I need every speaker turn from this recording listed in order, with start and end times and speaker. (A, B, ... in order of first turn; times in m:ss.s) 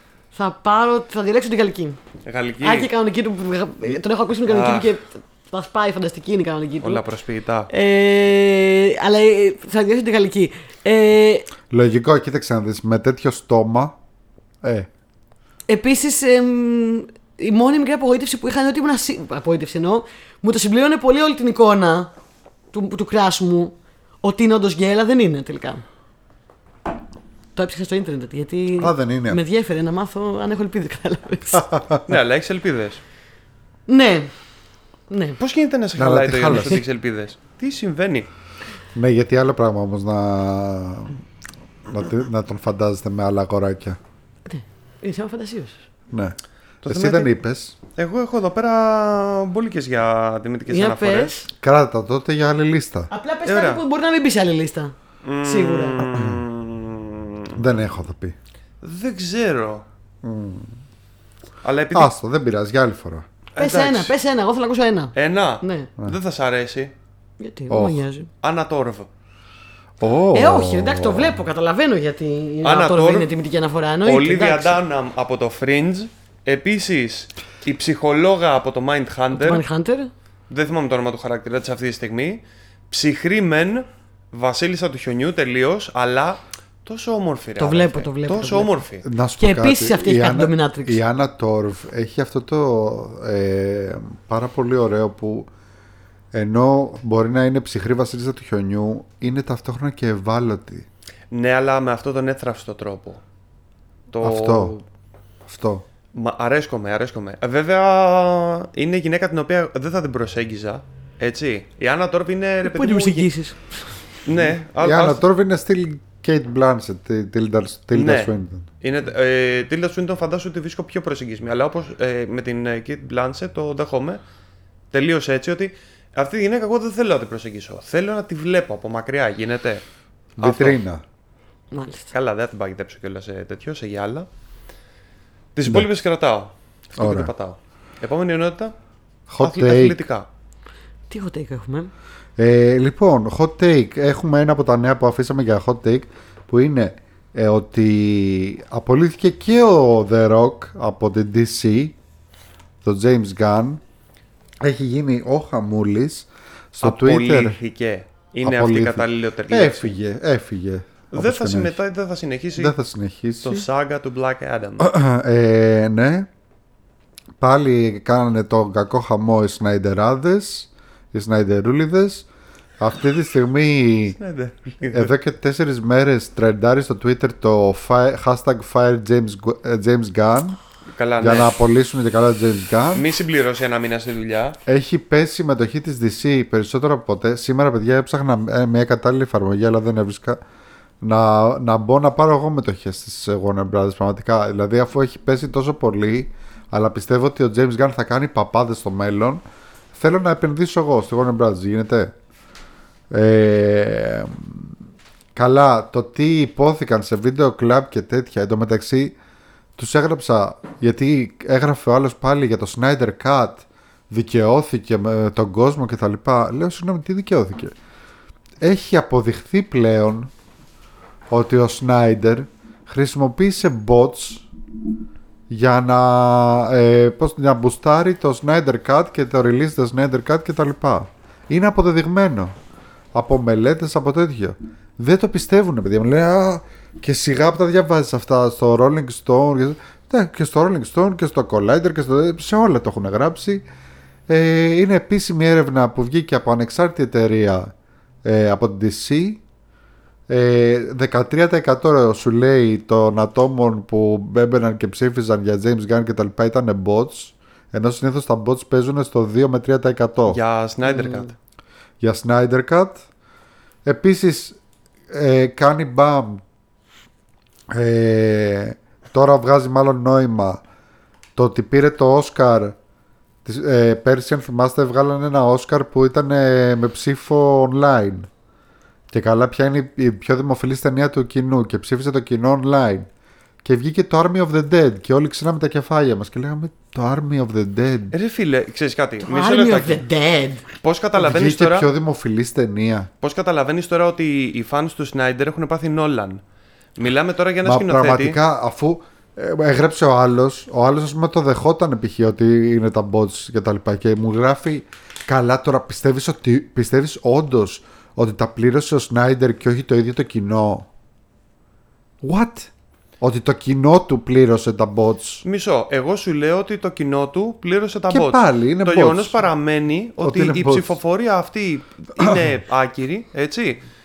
0:00.3-0:02.0 A
0:02.2-0:02.9 B
0:02.6-0:07.0 A
0:04.4-0:04.9 B
0:06.8-0:07.7 B
0:07.7-0:11.5 A
0:11.7-0:14.0 C
0:14.6-0:14.9 C
0:15.7-0:22.1 A
0:22.7-0:25.8 A
0:27.6-0:31.7 A
0:28.8-0:29.4 C
0:31.6-0:32.0 C
0:32.0-0:33.0 B
0:33.9-0:34.3 A
0:35.1-0:35.4 A
0:35.4-0:38.3 B
0:36.0-0:36.8 C
0:38.9-0:41.2 C
0:41.9-0:44.0 C
0:44.4-0:45.8 A
0:46.1-0:47.7 C
0:46.8-0:47.3 B
0:47.9-0:51.3 B
0:50.7-0:51.5 A
0:51.6-0:53.1 C
0:53.1-0:56.0 A
0:53.4-0:53.8 B
0:55.2-0:57.5 B
0:56.0-0:56.4 C
0:57.6-0:58.3 C
0:58.8-0:59.8 B
1:00.2-1:00.7 C
1:01.6-1:02.1 B
1:01.9-1:03.2 C
1:03.6-1:04.1 B
1:03.6-1:05.9 A
1:05.1-1:06.9 B
1:07.4-1:08.3 A
1:07.7-1:08.0 C
1:08.4-1:09.1 B
1:10.0-1:11.4 C
1:10.3-1:14.8 A
1:12.6-1:13.3 B
1:14.0-1:19.6 B
1:19.3-1:20.1 A
1:20.5-1:29.0 B
1:27.6-1:28.7 A
1:29.0-1:35.5 C
1:29.4-1:31.0 A
1:36.3-1:40.8 C
1:41.3-1:43.2 B
1:44.1-1:44.8 B
1:44.2-1:44.7 C
1:45.5-1:45.8 C
1:46.1-1:53.3 B
1:52.6-1:54.0 A
1:54.2-1:55.2 B
1:54.8-1:58.7 C
1:57.9-2:04.2 B
2:04.9-2:09.8 B
2:10.4-2:11.0 C
2:10.4-2:10.8 B
2:11.7-2:12.1 A
2:12.1-2:14.3 B
2:15.5-2:18.7 B
2:17.0-2:17.3 C
2:19.3-2:20.0 C
2:19.4-2:20.3 B
2:21.1-2:21.9 A
2:22.4-2:31.9 C
2:32.8-2:33.8 C
2:34.6-2:37.6 C
2:36.8-2:39.9 B
2:38.4-2:41.8 C
2:41.1-2:42.7 B
2:42.6-2:43.6 C
2:43.4-2:44.9 B
2:44.8-2:46.3 C
2:47.4-2:52.2 C
2:52.8-2:54.2 C
2:54.1-2:55.1 B
2:54.9-3:00.6 C
3:00.9-3:01.5 B
3:01.2-3:03.0 C
3:02.9-3:04.6 B
3:04.7-3:10.4 C
3:11.0-3:19.4 C
3:19.9-3:22.1 C
3:23.1-3:24.7 C
3:25.3-3:29.1 C
3:29.8-3:37.7 C
3:38.6-3:40.3 C
3:41.3-3:44.4 C
3:45.5-3:52.5 C
3:53.1-4:03.6 C
4:04.3-4:07.7 C
4:08.2-4:09.4 C
4:10.3-4:20.4 C
4:20.3-4:21.3 B
4:20.9-4:21.3 A
4:22.0-4:23.0 C
4:23.8-4:24.6 C
4:25.1-4:26.4 C
4:27.7-4:30.6 C
4:31.4-4:32.8 C
4:33.4-4:38.3 C
4:39.1-4:43.1 C
4:43.6-4:48.1 C
4:48.1-4:50.0 B
4:49.2-4:50.6 A
4:50.8-4:51.9 B
4:51.2-4:53.1 C
4:53.2-4:56.4 B
4:57.0-4:58.4 B
4:57.6-5:10.9 C
5:12.2-5:15.4 C
5:15.4-5:23.8 B
5:18.1-5:19.4 C
5:20.2-5:21.0 C